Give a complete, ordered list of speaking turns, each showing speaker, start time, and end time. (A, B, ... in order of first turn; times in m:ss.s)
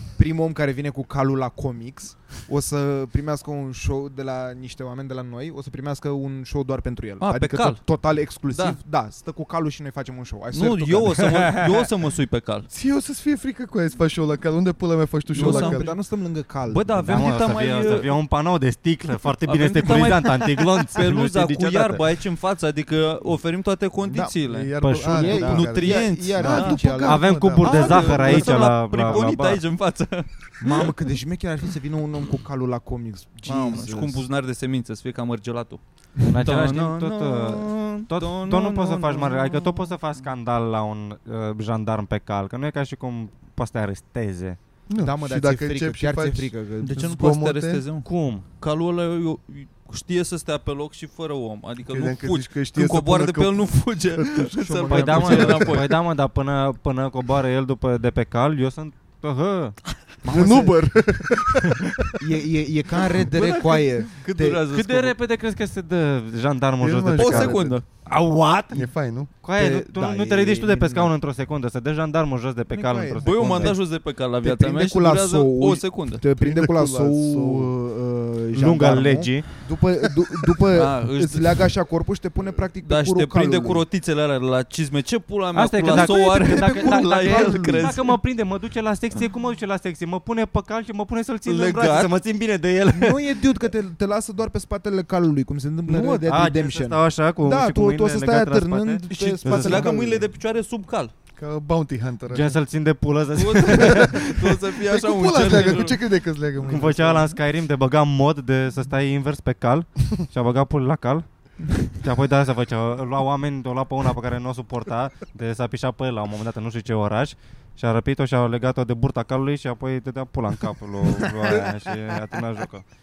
0:00.2-0:11.4 A
0:07.2-0:07.8 B
0:08.5-0:08.8 B
0:10.5-0:12.7 B
0:12.7-0:15.9 C
0:15.3-0:17.4 A
0:15.3-0:15.8 B
0:16.7-0:18.1 B
0:17.1-0:22.0 D
0:19.4-0:27.0 B
0:24.1-0:24.3 A
0:24.4-0:28.2 C
0:24.8-0:25.6 D
0:25.0-0:29.2 A
0:27.0-0:29.6 D
0:27.6-0:30.9 B
0:30.6-0:34.2 A
0:33.4-0:39.9 B
0:36.2-0:44.6 D
0:44.9-0:47.8 C
0:45.0-0:47.1 A
0:46.8-0:55.9 B
0:48.0-0:48.4 D
0:51.9-0:54.5 C
0:54.6-0:55.8 A
0:54.9-0:59.8 D
0:55.2-0:55.7 C
1:00.2-1:01.0 A
1:00.3-1:02.0 C
1:02.2-1:04.6 A
1:03.3-1:05.2 B
1:04.7-1:13.8 D
1:06.8-1:07.8 C
1:07.1-1:07.8 B
1:08.7-1:09.3 C
1:09.5-1:11.1 A
1:12.7-1:23.8 A
1:13.2-1:16.2 B
1:16.4-1:17.7 C
1:18.5-1:19.5 D
1:20.7-1:21.7 B
1:22.8-1:28.2 B
1:25.5-1:33.2 D
1:25.8-1:28.1 A
1:31.4-1:32.1 B
1:32.9-1:40.3 A
1:36.0-1:39.9 D
1:39.1-1:41.1 B
1:41.4-1:42.6 C
1:42.3-1:44.2 D
1:43.4-1:46.0 B
1:43.6-1:47.3 C
1:46.6-1:51.2 D
1:51.8-2:02.8 D